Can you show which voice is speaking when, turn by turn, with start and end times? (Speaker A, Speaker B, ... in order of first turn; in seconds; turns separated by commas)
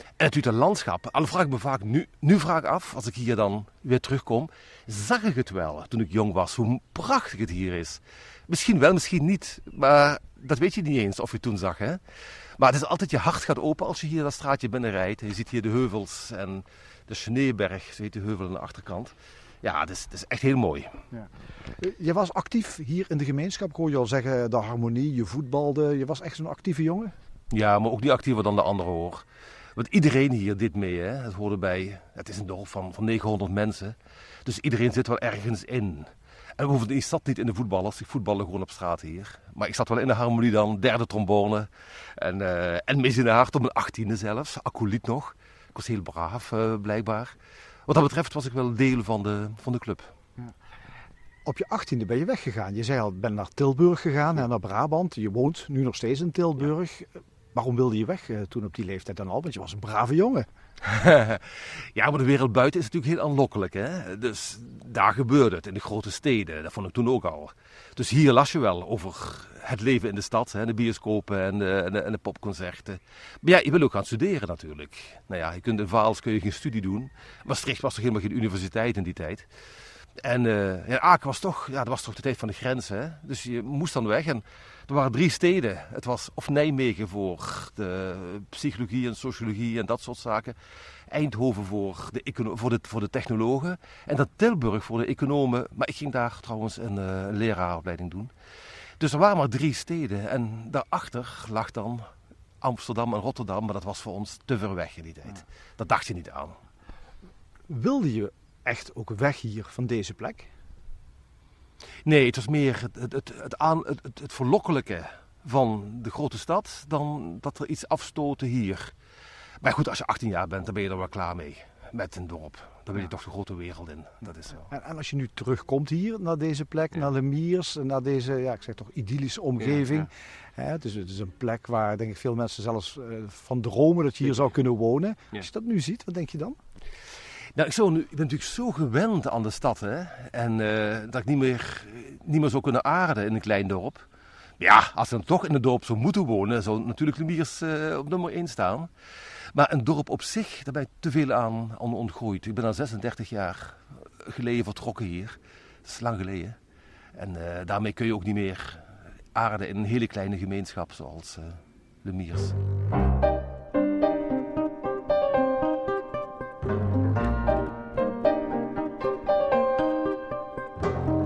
Speaker A: 0.2-12.0, Speaker A: 12.6-21.0, Speaker B: 21.1-27.1, Speaker A: 27.5-29.2, Speaker A: 29.8-47.4, Speaker A: 47.9-50.1, Speaker B: 51.5-60.5, Speaker A: 60.8-79.5, Speaker A: 80.2-90.6, Speaker A: 91.1-98.3, Speaker A: 99.0-102.1, Speaker A: 102.6-106.6, Speaker B: 107.7-110.5, Speaker A: 112.0-118.9, Speaker A: 119.6-124.7, Speaker B: 124.7-136.6, Speaker A: 129.7-130.0, Speaker A: 137.6-144.1, Speaker A: 144.6-148.9, Speaker A: 149.5-156.6, Speaker A: 157.2-162.6